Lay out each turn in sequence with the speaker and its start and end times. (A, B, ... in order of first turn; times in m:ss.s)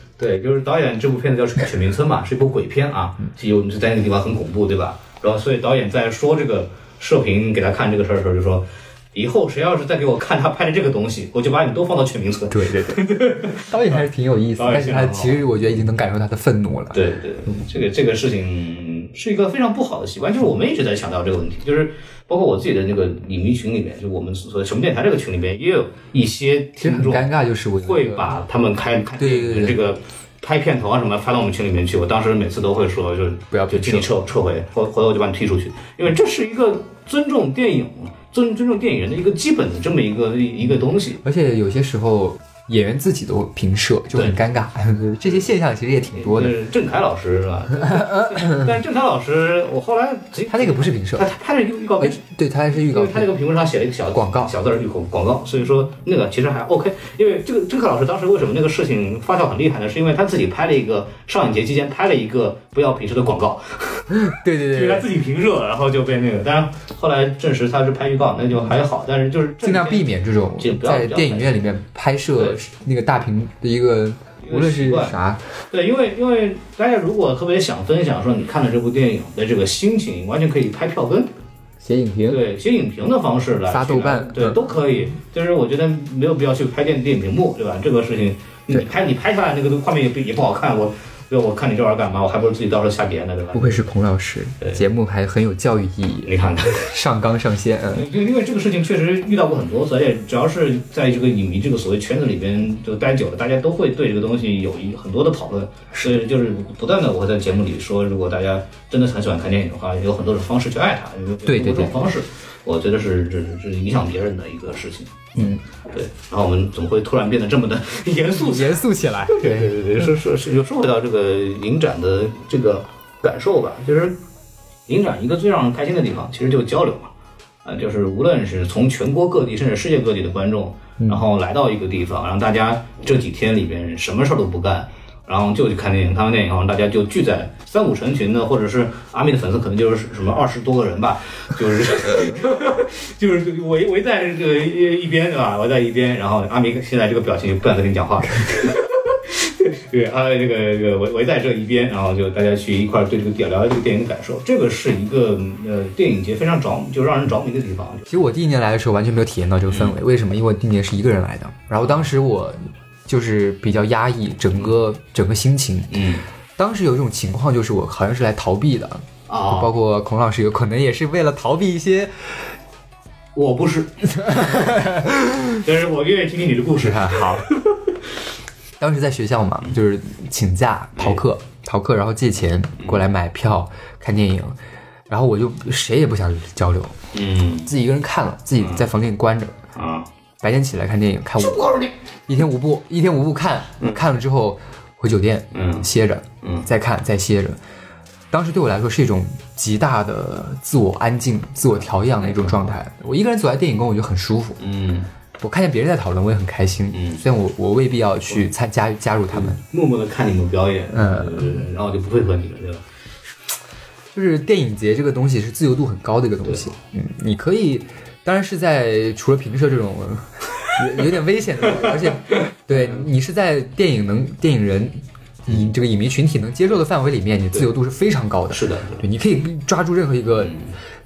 0:00.2-0:14.0 A
0:12.5-0:17.1 B
0:14.6-0:15.4 A
0:16.9-0:27.3 A
0:26.8-0:28.4 B
0:27.8-0:41.2 A
0:29.2-0:29.8 B
0:33.5-0:34.1 B
0:41.2-0:46.6 B
0:44.1-0:44.4 A
0:46.1-0:52.2 A
0:47.8-0:48.7 B
0:50.5-0:51.3 B
0:52.0-0:53.3 B
0:52.7-1:04.2 A
0:54.1-0:54.5 B
1:04.1-1:05.1 B
1:04.7-1:11.7 A
1:09.6-1:15.4 B
1:14.4-1:15.2 A
1:15.7-1:21.3 A
1:21.8-1:22.4 B
1:22.3-1:33.8 A
1:23.7-1:24.6 B
1:33.5-1:38.1 B
1:36.2-1:36.9 A
1:37.9-2:04.2 A
1:51.4-1:52.1 B
1:55.4-1:55.6 B
1:58.4-1:59.8 B
2:04.9-2:07.1 A
2:07.6-2:38.1 A
2:38.1-2:46.0 B
2:39.7-2:40.0 A
2:45.9-2:46.2 A
2:46.6-2:52.4 B
2:49.3-2:49.7 A
2:53.4-2:54.7 A
2:54.2-2:55.6 B
2:55.6-2:57.8 A
2:56.8-2:57.5 B
2:58.8-3:04.6 B
3:05.1-3:07.0 B
3:07.1-3:07.7 A
3:07.7-3:09.6 B
3:09.7-3:10.1 A
3:10.4-3:11.7 B
3:11.4-3:11.9 A
3:12.3-3:17.6 B
3:15.5-3:15.9 A
3:16.4-3:16.7 A
3:18.3-3:24.6 B
3:22.2-3:22.7 A
3:24.6-3:25.1 A
3:25.4-3:29.6 B
3:26.9-3:27.2 A
3:29.3-3:32.8 A
3:30.9-3:31.7 B
3:34.1-3:50.6 B
3:42.7-3:43.0 A
3:48.5-3:49.0 A
3:50.4-3:50.7 A